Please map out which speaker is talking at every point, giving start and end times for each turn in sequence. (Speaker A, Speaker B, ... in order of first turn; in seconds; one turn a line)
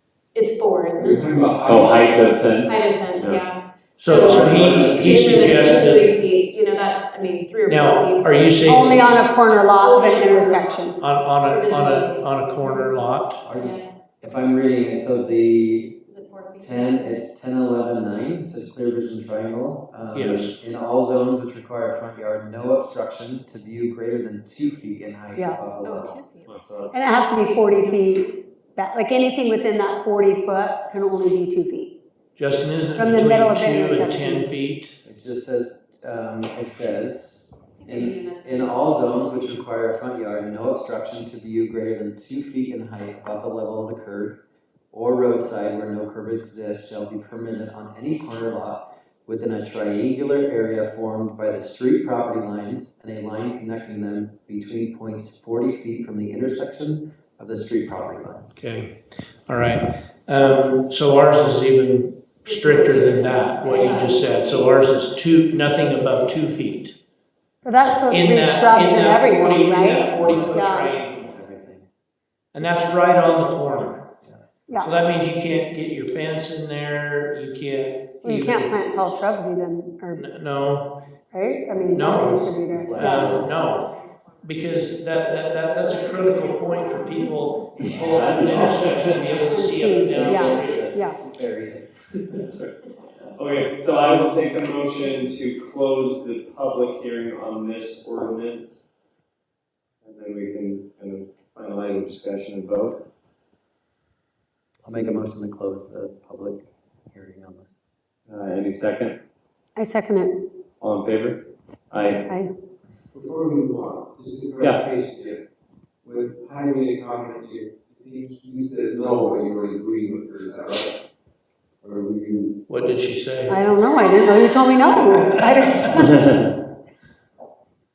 Speaker A: 0.3-1.9
Speaker B: 1.0-2.5
Speaker C: 1.6-3.5
Speaker A: 2.6-13.9
Speaker D: 4.0-6.2
Speaker E: 4.1-5.8
Speaker C: 4.1-5.1
Speaker D: 7.7-9.2
Speaker F: 8.7-11.0
Speaker D: 11.0-13.4
Speaker E: 13.4-16.0
Speaker A: 16.1-17.2
Speaker E: 16.6-26.2
Speaker D: 20.1-20.6
Speaker F: 25.3-25.6
Speaker A: 25.8-26.6
Speaker C: 26.5-27.2
Speaker F: 26.9-32.0
Speaker A: 27.2-27.8
Speaker D: 32.4-35.0
Speaker F: 33.0-34.5
Speaker E: 35.0-58.6
Speaker A: 37.8-39.2
Speaker D: 58.6-67.0
Speaker A: 62.4-64.8
Speaker F: 67.6-70.9
Speaker D: 68.1-71.2
Speaker E: 70.2-71.9
Speaker D: 72.5-74.2
Speaker D: 74.8-78.8
Speaker F: 78.2-80.3
Speaker D: 80.1-81.0
Speaker F: 81.3-83.4
Speaker D: 81.9-83.9
Speaker E: 82.2-83.5
Speaker A: 83.2-89.0
Speaker D: 84.4-90.9
Speaker C: 87.8-89.4
Speaker F: 89.5-91.2
Speaker E: 90.1-91.9
Speaker C: 90.1-90.6
Speaker C: 92.3-92.7
Speaker C: 93.2-98.9
Speaker C: 100.0-103.1
Speaker E: 104.8-107.7
Speaker C: 108.3-109.2
Speaker F: 109.8-110.5
Speaker C: 110.8-112.4
Speaker B: 113.2-115.4
Speaker C: 114.6-114.9
Speaker B: 116.0-120.9
Speaker B: 121.8-122.5
Speaker D: 122.7-123.7
Speaker F: 123.5-126.2
Speaker D: 125.1-125.7
Speaker C: 125.9-126.5